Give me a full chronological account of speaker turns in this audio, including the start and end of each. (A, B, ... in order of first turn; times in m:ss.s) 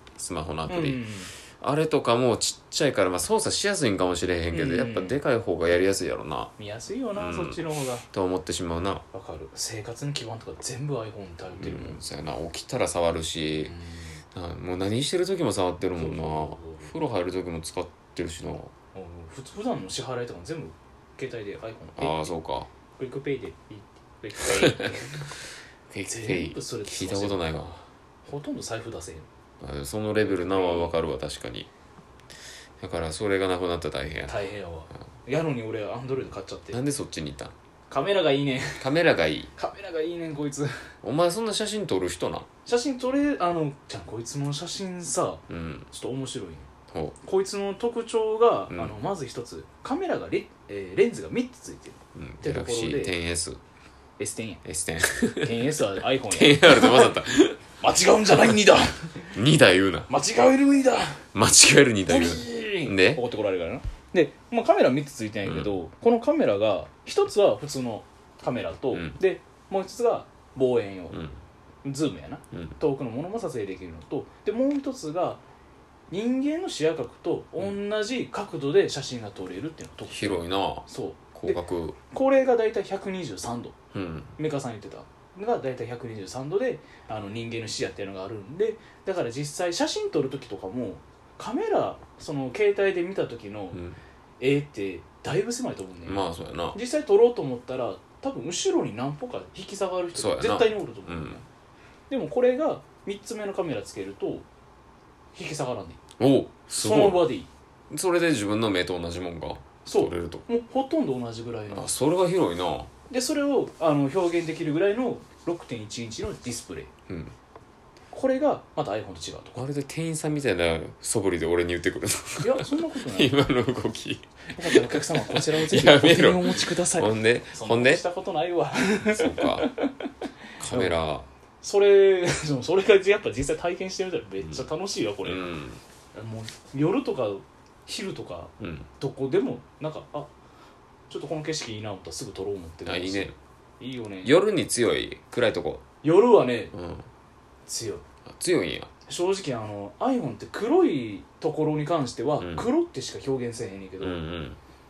0:00.2-0:01.0 A
0:00.7-0:01.3 B
0:01.6-0:06.5 A
0:04.5-0:05.2 B
0:06.6-0:08.1 B
0:07.2-0:07.6 A
0:08.1-0:09.0 A
0:09.1-0:12.0 B
0:11.6-0:13.7 A
0:13.6-0:14.2 B
0:14.4-0:18.7 A
0:15.9-0:16.9 B
0:18.9-0:22.3 B
0:22.0-0:22.7 A
0:23.0-0:25.3 B
0:24.4-0:24.8 A
0:25.9-0:27.8 A
0:26.1-0:27.7 B
0:28.3-0:29.3 B
0:29.6-0:31.7 A
0:30.2-0:31.0 B
0:32.8-0:34.4 A
0:34.3-0:36.8 B
0:36.7-0:37.5 A
0:37.9-0:38.9 B
0:38.8-0:39.5 A
0:39.6-0:40.9 B
0:41.0-0:42.5 A
0:42.7-0:46.7 B
0:45.5-0:45.9 A
0:46.9-0:47.2 A
0:47.2-0:53.2 B
0:48.7-0:49.0 A
0:52.2-0:53.6 A
0:54.2-0:54.6 B
0:54.6-0:55.6 A
0:55.2-0:57.2 B
0:56.3-0:57.6 A
0:57.8-0:59.3 B
0:59.3-1:00.1 A
1:00.1-1:01.2 B
1:01.3-1:03.2 A
1:02.1-1:11.2 B
1:05.4-1:05.7 A
1:08.9-1:09.2 A
1:11.1-1:11.4 A
1:11.8-1:15.4 B
1:16.1-1:23.8 B
1:20.1-1:22.0 A
1:23.9-1:24.4 A
1:24.4-1:33.8 B
1:33.7-1:34.0 A
1:34.4-1:41.4 B
1:36.0-1:36.8 A
1:40.1-1:41.4 A
1:42.1-1:44.4 B
1:45.4-1:46.0 B
1:46.2-1:47.3 A
1:46.7-1:47.5 B
1:47.9-1:50.5 A
1:49.8-1:52.0 B
1:51.7-1:52.9 A
1:53.1-1:56.9 B
1:57.1-1:57.3 A
1:58.1-1:59.6 B
1:59.6-2:08.0 A
2:02.4-2:03.4 B
2:04.5-2:10.1 B
2:09.0-2:09.7 A
2:10.6-2:11.3 A
2:10.6-2:11.0 B
2:11.6-2:15.6 B
2:15.2-2:15.8 A
2:16.1-2:20.3 B
2:18.6-2:18.9 A
2:21.1-2:24.4 B
2:22.9-2:23.4 A
2:24.2-2:25.8 A
2:26.0-2:26.7 B
2:26.7-2:27.1 A
2:27.7-2:28.0 B
2:28.3-2:28.9 A
2:29.1-2:34.3 B
2:32.4-2:32.7 A
2:34.0-2:34.6 A